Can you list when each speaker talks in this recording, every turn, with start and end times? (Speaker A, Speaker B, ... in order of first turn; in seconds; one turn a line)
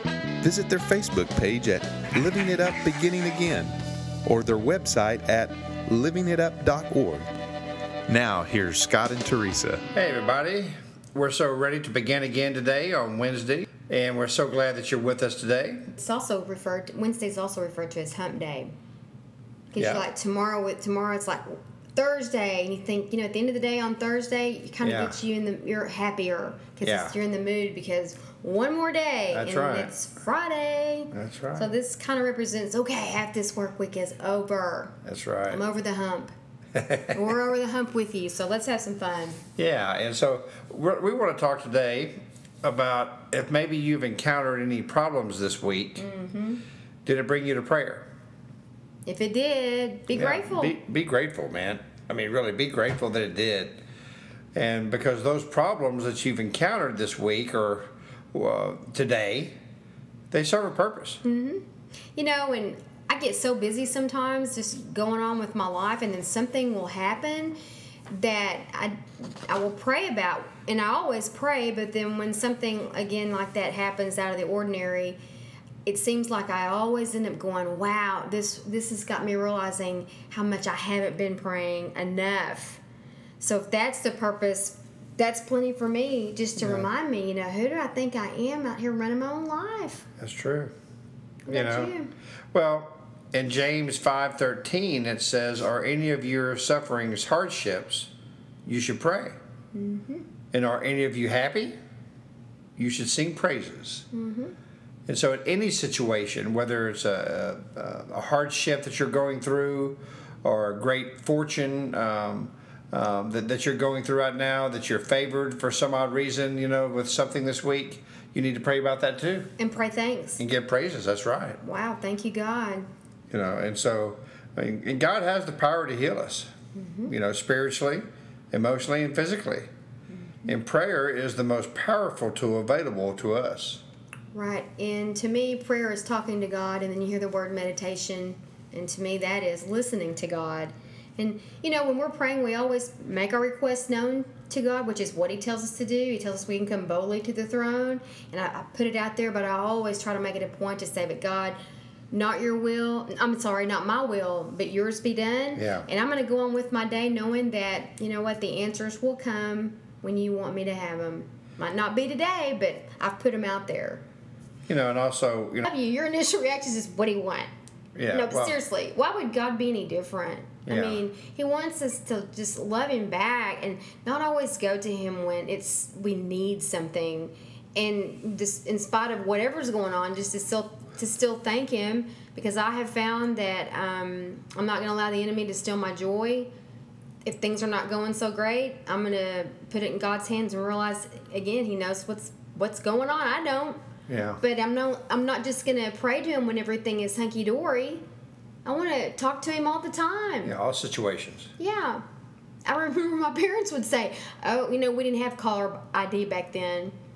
Speaker A: 0.4-3.7
Speaker A: 4.2-7.3
Speaker A: 8.1-9.8
Speaker B: 9.9-15.9
Speaker C: 16.0-18.7
Speaker C: 19.7-35.0
Speaker B: 19.8-20.1
Speaker B: 24.8-25.2
Speaker B: 26.8-27.1
Speaker B: 29.3-29.9
Speaker B: 31.1-31.7
Speaker B: 35.0-35.6
Speaker C: 35.5-36.3
Speaker B: 36.8-37.2
Speaker C: 37.1-39.4
Speaker B: 39.6-46.0
Speaker C: 46.0-46.6
Speaker B: 47.0-48.1
Speaker C: 49.0-50.8
Speaker B: 50.1-53.8
Speaker B: 54.5-59.6
Speaker B: 60.3-61.2
Speaker C: 61.2-67.6
Speaker C: 68.1-75.2
Speaker C: 75.8-82.8
Speaker C: 83.4-90.1
Speaker B: 86.6-86.9
Speaker B: 90.2-90.7
Speaker B: 91.5-91.9
Speaker C: 91.5-92.1
Speaker B: 92.5-98.1
Speaker B: 98.7-99.4
Speaker C: 99.7-100.3
Speaker B: 100.5-101.8
Speaker B: 102.8-104.1
Speaker C: 104.1-104.5
Speaker B: 105.1-119.5
Speaker C: 119.6-120.4
Speaker B: 120.4-121.6
Speaker C: 121.6-122.9
Speaker B: 123.3-126.5
Speaker C: 126.8-127.1
Speaker B: 127.1-129.7
Speaker B: 130.5-133.8
Speaker C: 134.3-151.6
Speaker C: 152.1-164.0
Speaker B: 155.6-155.9
Speaker B: 164.7-165.7
Speaker C: 165.6-167.5
Speaker B: 168.0-168.6
Speaker C: 168.1-186.5
Speaker B: 170.7-171.0
Speaker C: 187.2-193.8
Speaker B: 194.1-194.4
Speaker C: 194.4-198.0
Speaker C: 198.7-200.6
Speaker B: 200.4-201.5
Speaker C: 201.6-202.0
Speaker C: 202.7-206.9